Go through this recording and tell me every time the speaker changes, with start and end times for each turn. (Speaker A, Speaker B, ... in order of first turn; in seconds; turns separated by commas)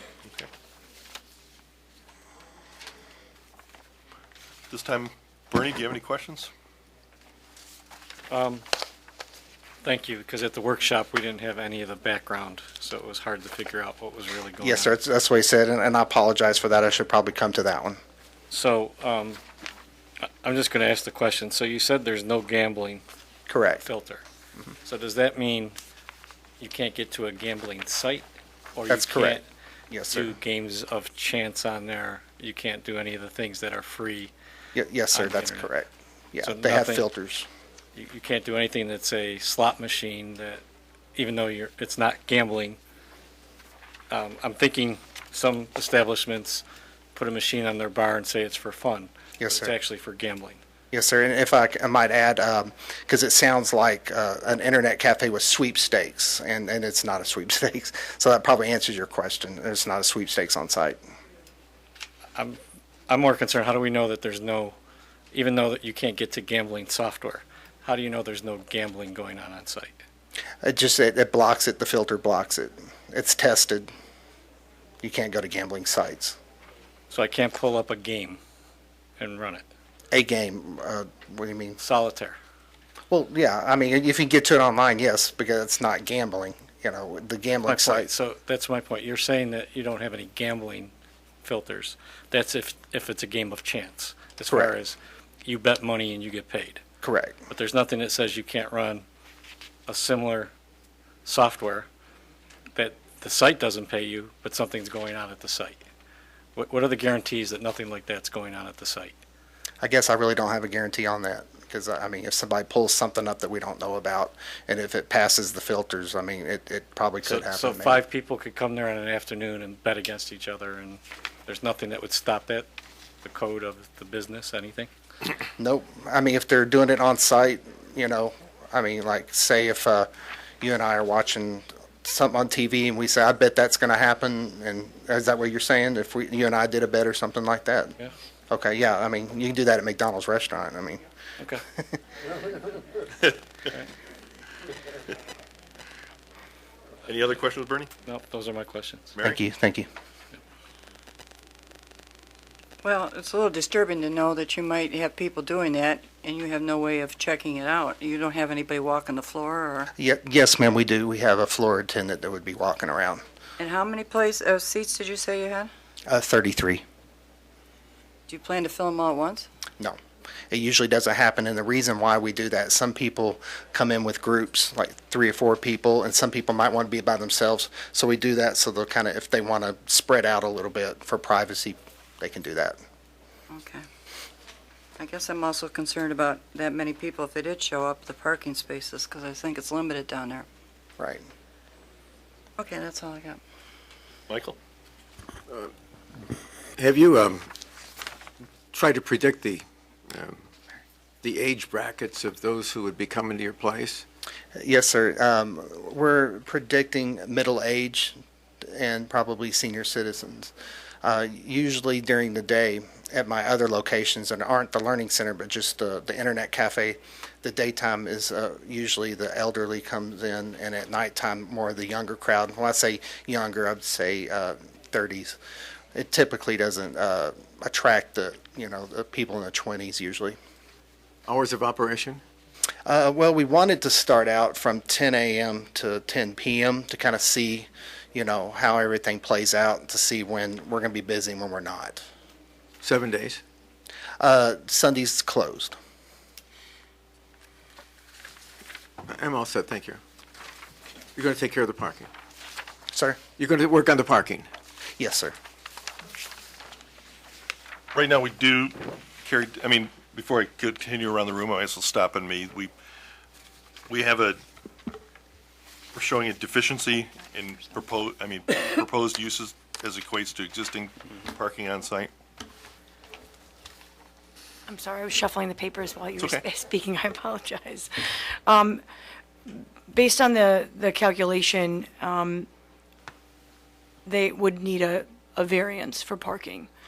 Speaker A: 4.7-6.5, Speaker B: 8.3-8.6, Speaker B: 9.8-14.9, Speaker C: 14.6-18.0, Speaker B: 18.5-19.4, Speaker B: 20.4-23.0, Speaker C: 23.5-23.8, Speaker B: 23.8-24.2, Speaker B: 24.8-25.8, Speaker B: 26.6-29.4, Speaker C: 28.9-30.3, Speaker B: 30.1-34.3, Speaker C: 34.7-37.5, Speaker B: 35.1-35.7, Speaker B: 36.4-37.0, Speaker B: 38.0-40.6, Speaker B: 41.1-42.8, Speaker B: 44.1-46.6, Speaker B: 47.1-50.6, Speaker C: 49.4-49.7, Speaker C: 50.9-61.0, Speaker B: 62.3-64.8, Speaker B: 65.3-69.9, Speaker C: 70.6-73.9, Speaker C: 75.0-76.4, Speaker B: 77.1-78.4, Speaker B: 79.2-79.6, Speaker C: 80.1-81.8, Speaker B: 81.8-82.4, Speaker C: 83.1-88.1, Speaker B: 87.7-90.9, Speaker B: 91.4-96.8, Speaker C: 97.0-97.4, Speaker B: 97.5-99.0, Speaker B: 99.9-100.5, Speaker B: 101.2-101.9, Speaker B: 102.8-105.8, Speaker B: 106.5-109.1, Speaker C: 109.8-118.0, Speaker B: 117.2-122.7, Speaker B: 123.2-124.9, Speaker C: 125.6-130.1, Speaker C: 130.6-137.9, Speaker C: 138.5-141.0, Speaker A: 147.1-147.9, Speaker B: 148.0-149.2, Speaker C: 149.2-149.9, Speaker D: 152.8-159.9, Speaker C: 160.0-163.2, Speaker D: 163.6-165.7, Speaker C: 166.1-166.8, Speaker D: 168.3-169.5, Speaker C: 170.5-182.8, Speaker D: 183.5-183.8, Speaker D: 185.0-190.5, Speaker C: 191.0-191.2, Speaker D: 192.6-193.4, Speaker A: 194.3-194.6, Speaker E: 196.8-197.5, Speaker E: 198.7-200.4, Speaker E: 201.2-204.0, Speaker C: 204.6-210.5, Speaker C: 211.0-225.4, Speaker C: 225.9-230.4, Speaker E: 231.3-232.2, Speaker C: 232.8-242.1, Speaker E: 242.8-243.4, Speaker C: 244.2-245.8, Speaker E: 249.1-250.0, Speaker E: 251.2-252.1, Speaker C: 252.9-253.2, Speaker E: 253.4-254.5, Speaker C: 255.0-255.3, Speaker A: 257.9-262.7, Speaker A: 263.9-264.4, Speaker A: 265.9-272.1, Speaker F: 274.7-278.8, Speaker A: 276.2-276.4, Speaker F: 279.4-282.5, Speaker F: 284.1-286.7